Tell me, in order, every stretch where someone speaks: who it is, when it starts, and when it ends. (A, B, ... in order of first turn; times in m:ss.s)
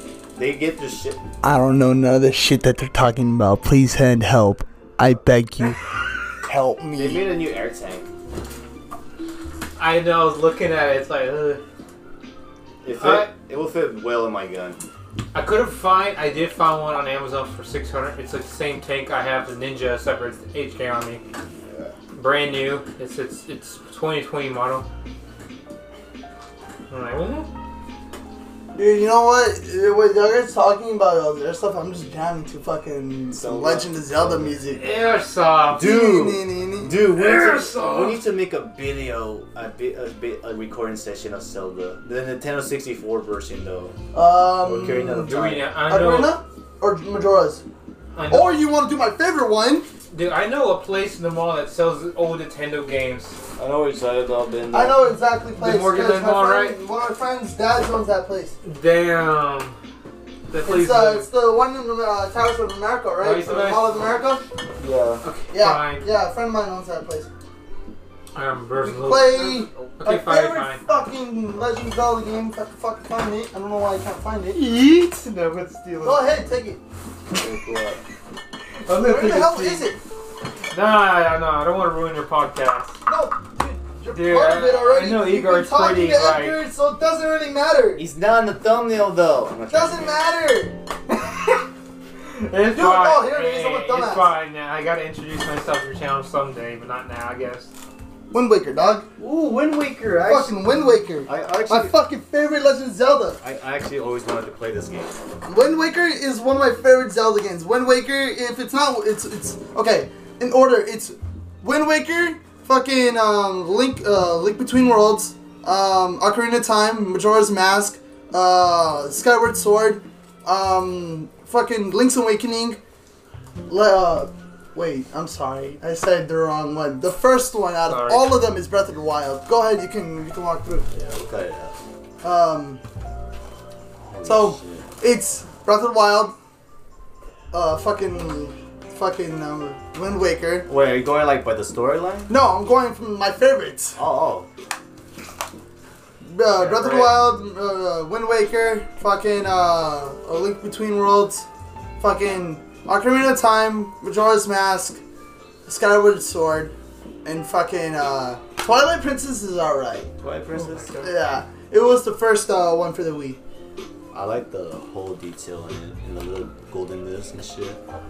0:00.3-0:01.2 A
0:01.4-0:05.8 B
0:06.4-0:07.3 B
0:07.0-0:08.1 A
0:09.8-0:11.6 C
0:12.8-0:14.8 A
0:12.9-0:13.3 C
0:15.3-0:21.2 C
0:21.5-0:22.0 A
0:22.1-0:24.9 C
0:26.9-0:27.5 C
0:28.8-0:34.8 B
0:33.3-0:34.6 A
0:34.7-0:35.9 C
0:35.7-0:44.0 A
0:35.8-0:37.0 B
0:37.1-0:38.2 C
0:44.1-0:45.3 B
0:44.6-0:45.7 A
0:44.9-0:46.4 C
0:45.8-0:47.6 B
0:48.2-0:48.6 C
0:48.3-0:49.9 B
0:50.1-0:53.4 C
0:53.6-0:55.0 A
0:54.7-0:58.6 B
0:55.6-0:56.8 C
0:58.6-0:59.8 C
1:00.5-1:01.3 C
1:00.6-1:04.4 B
1:03.2-1:04.0 C
1:04.8-1:05.2 A
1:05.2-1:06.0 C
1:05.5-1:07.3 B
1:08.4-1:10.8 C
1:08.8-1:14.6 B
1:14.5-1:16.4 C
1:16.0-1:16.8 B
1:17.3-1:18.0 A
1:18.9-1:19.9 C
1:18.9-1:20.0 B
1:20.7-1:23.0 C
1:23.1-1:28.0 B
1:24.1-1:26.6 C
1:28.0-1:30.2 A
1:29.7-1:30.8 B
1:32.3-1:37.7 C
1:32.7-1:34.3 B
1:38.3-1:39.1 B
1:39.2-1:40.7 A
1:40.2-1:43.4 B
1:41.2-1:42.0 A
1:43.4-1:45.2 A
1:45.4-2:02.8 B
2:03.7-2:10.9 B
2:07.9-2:08.4 C
2:10.9-2:11.8 A
2:12.2-2:12.8 B
2:14.0-2:14.9 A
2:14.2-2:16.4 B
2:17.5-2:20.7 B
2:20.7-2:22.3 A
2:22.3-2:24.0 B
2:24.0-2:24.5 A
2:26.2-2:31.5 B
2:26.6-2:27.2 A
2:32.0-2:35.0 B
2:35.7-2:36.7 B
2:37.2-2:40.1 B
2:40.2-2:41.0 A
2:40.5-2:41.1 C
2:41.0-2:43.4 B
2:44.1-2:47.8 A